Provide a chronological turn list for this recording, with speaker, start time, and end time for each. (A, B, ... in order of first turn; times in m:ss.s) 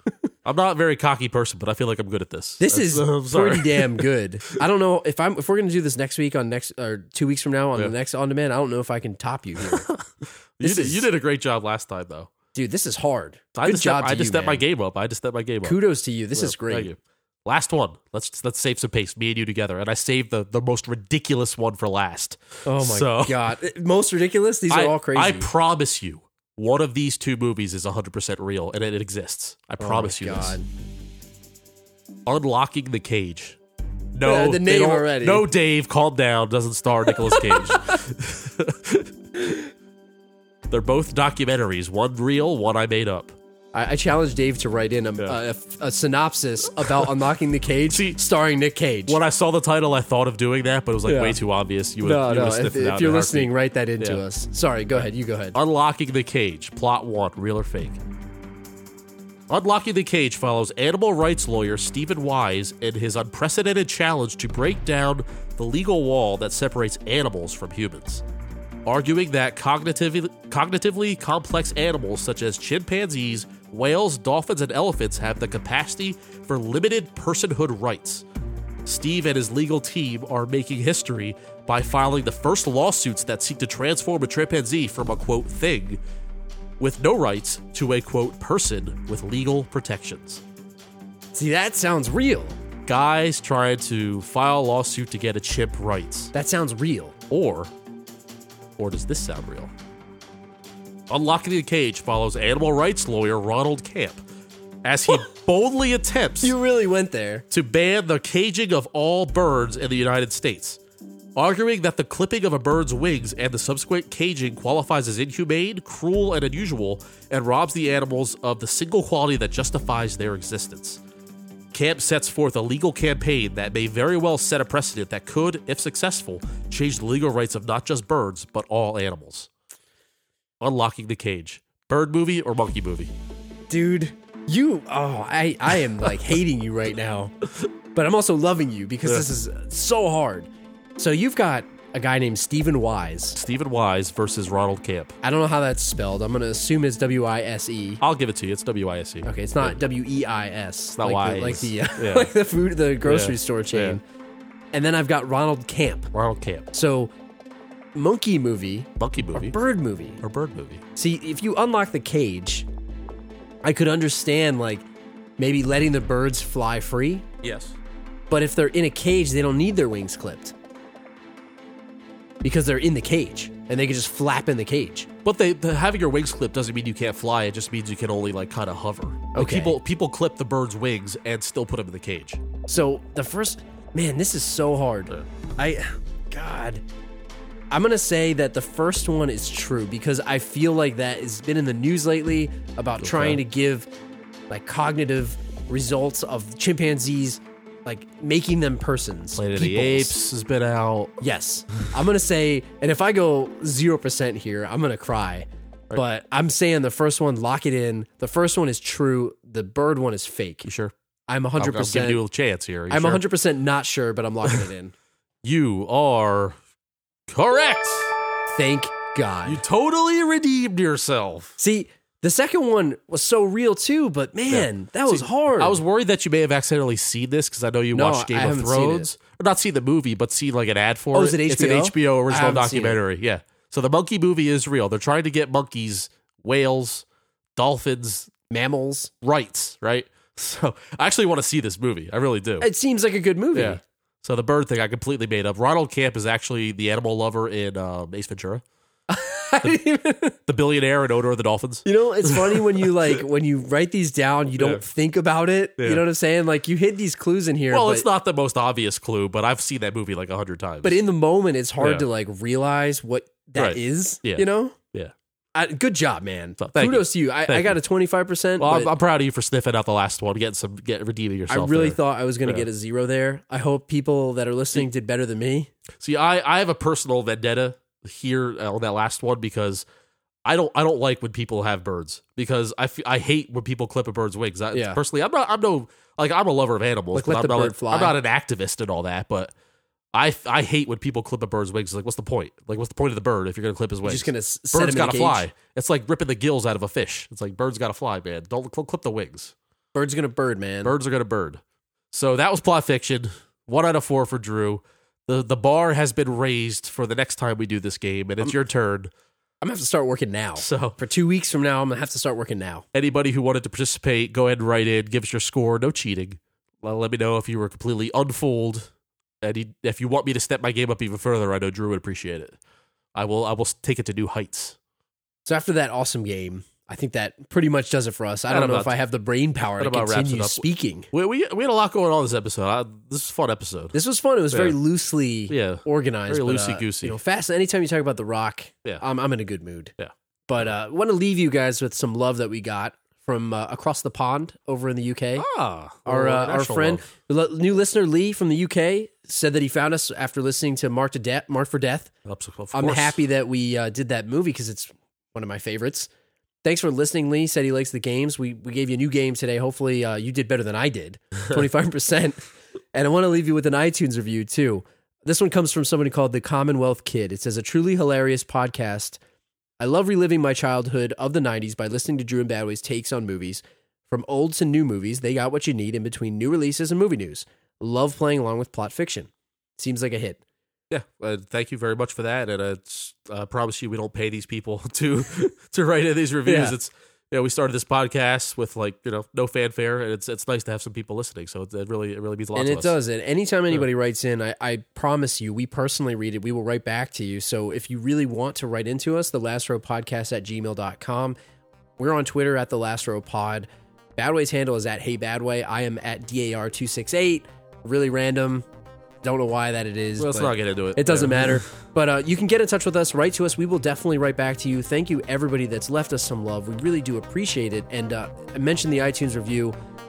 0:00.4-0:04.6 A
0:02.6-0:09.9 B
0:09.6-0:12.3 A
0:10.6-0:11.1 B
0:12.5-0:14.6 B
0:13.6-0:15.8 A
0:15.6-0:16.9 B
0:16.4-0:23.4 A
0:22.6-0:25.5 B
0:24.7-0:30.6 A
0:29.8-0:30.7 B
0:32.3-0:33.6 A
0:34.2-0:39.6 A
0:34.2-0:35.5 B
0:37.2-0:38.0 B
0:40.7-0:43.4 A
0:43.7-0:49.2 B
0:47.9-0:48.2 A
0:49.1-0:54.2 A
0:51.0-0:51.4 B
0:52.0-0:55.6 B
0:55.6-0:58.0 A
0:59.5-1:08.2 A
1:08.9-1:18.2 A
1:18.8-1:26.0 A
1:26.8-1:30.4 A
1:31.4-1:32.6 B
1:32.9-1:36.3 A
1:36.3-1:37.2 B
1:37.3-1:37.7 A
1:38.8-1:39.7 A
1:41.1-1:44.2 A
1:44.8-1:46.6 A
1:46.4-1:47.5 B
1:47.5-1:50.8 A
1:51.4-2:01.0 A
2:01.7-2:09.5 A
2:10.6-2:13.1 A
2:13.7-2:17.3 B
2:17.9-2:23.4 B
2:23.4-2:25.2 A
2:25.2-2:28.0 B
2:28.0-2:29.8 A
2:29.2-2:34.0 B
2:31.0-2:32.3 A
2:33.0-2:34.0 A
2:34.7-2:36.1 B
2:36.1-2:36.7 A
2:36.7-2:37.1 B
2:38.0-2:40.2 B
2:39.0-2:39.6 A
2:40.2-2:40.8 A
2:41.0-2:42.7 B
2:43.6-2:44.9 B
2:45.4-2:47.3 B
2:47.4-2:47.8 A
2:48.3-2:50.5 B
2:52.4-2:55.1 B
2:55.2-3:02.4 A
2:59.3-2:59.8 B
3:02.7-3:06.8 B
3:07.7-3:13.9 B
3:13.0-3:13.4 A
3:14.5-3:20.2 B
3:19.4-3:21.1 A
3:21.2-3:30.7 B
3:30.6-3:30.9 A
3:31.3-3:32.2 B
3:31.6-3:33.2 A
3:32.9-3:34.9 B
3:35.4-3:36.6 A
3:37.3-3:38.2 A
3:38.5-3:39.6 B
3:39.4-3:41.6 A
3:41.6-3:45.8 B
3:44.5-3:57.0 A
3:47.9-3:49.1 B
3:51.1-3:53.0 B
3:57.6-3:58.3 A
3:58.5-3:59.1 B
3:59.2-4:02.7 A
4:02.6-4:03.8 B
4:03.5-4:08.6 A
4:09.1-4:10.4 B
4:10.5-4:13.2 A
4:11.8-4:18.1 B
4:14.6-4:14.8 A
4:15.8-4:16.0 A
4:17.7-4:21.0 A
4:20.8-4:24.8 B
4:21.8-4:22.1 A
4:23.6-4:25.1 A
4:25.6-4:28.9 B
4:26.6-4:27.8 A
4:28.6-4:32.7 A
4:31.5-4:35.7 B
4:36.0-4:39.8 A
4:40.4-4:49.5 A
4:44.7-4:45.0 B
4:47.1-4:48.2 B
4:50.1-4:59.5 A
4:54.0-4:55.5 B
4:59.9-5:00.9 B
5:00.8-5:01.6 A
5:02.1-5:09.1 A
5:09.6-5:12.9 B
5:10.6-5:11.0 A
5:12.9-5:18.9 A
5:19.4-5:22.6 A
5:23.1-5:24.8 A
5:25.5-5:31.1 B
5:28.5-5:28.9 A
5:29.8-5:34.0 A
5:33.9-5:40.0 B
5:34.5-5:34.8 A
5:35.5-5:37.2 A
5:40.5-5:45.5 B
5:45.4-5:47.0 A
5:46.1-5:52.1 B
5:52.3-5:53.2 A
5:52.7-5:56.1 B
5:56.6-6:09.2 B
6:09.8-6:20.4 B
6:20.9-6:33.0 A
6:26.4-6:26.8 B
6:32.5-6:41.4 B
6:42.0-6:48.7 B
6:49.2-6:59.7 B
6:50.2-6:51.6 A